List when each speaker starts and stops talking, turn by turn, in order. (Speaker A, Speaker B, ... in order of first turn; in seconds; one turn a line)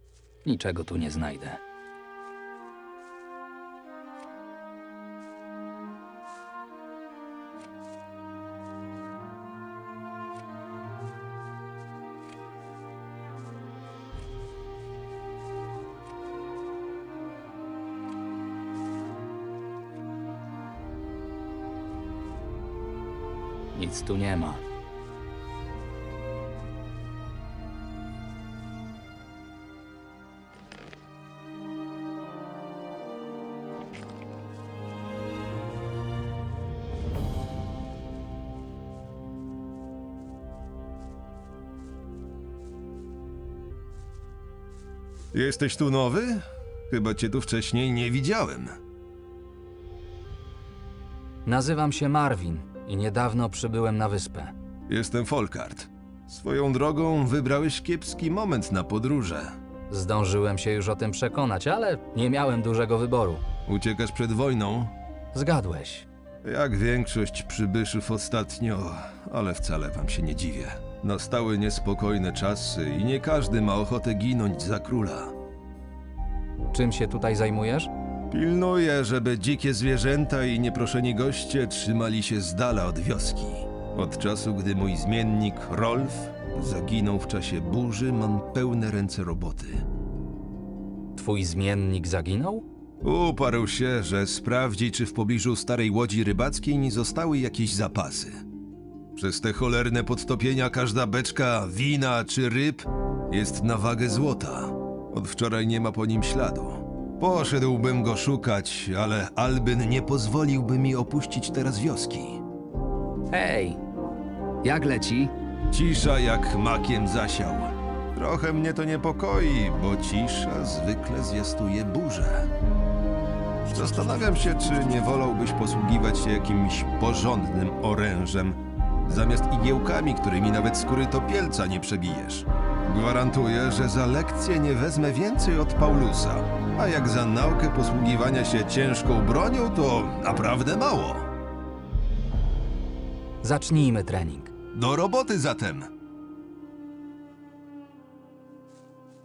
Speaker A: 0.5-1.6
Speaker A: 23.7-24.6
Speaker B: 45.3-46.4
Speaker B: 46.9-48.7
Speaker A: 51.5-54.5
Speaker B: 54.9-59.5
Speaker A: 59.9-63.4
Speaker B: 63.7-64.9
Speaker A: 65.3-66.1
Speaker B: 66.4-75.3
Speaker A: 76.7-77.9
Speaker B: 78.3-89.8
Speaker A: 91.2-92.7
Speaker B: 93.0-98.4
Speaker B: 99.2-112.4
Speaker A: 113.3-113.8
Speaker A: 114.6-115.3
Speaker B: 115.7-122.5
Speaker B: 123.7-141.3
Speaker A: 143.4-144.5
Speaker B: 144.7-145.9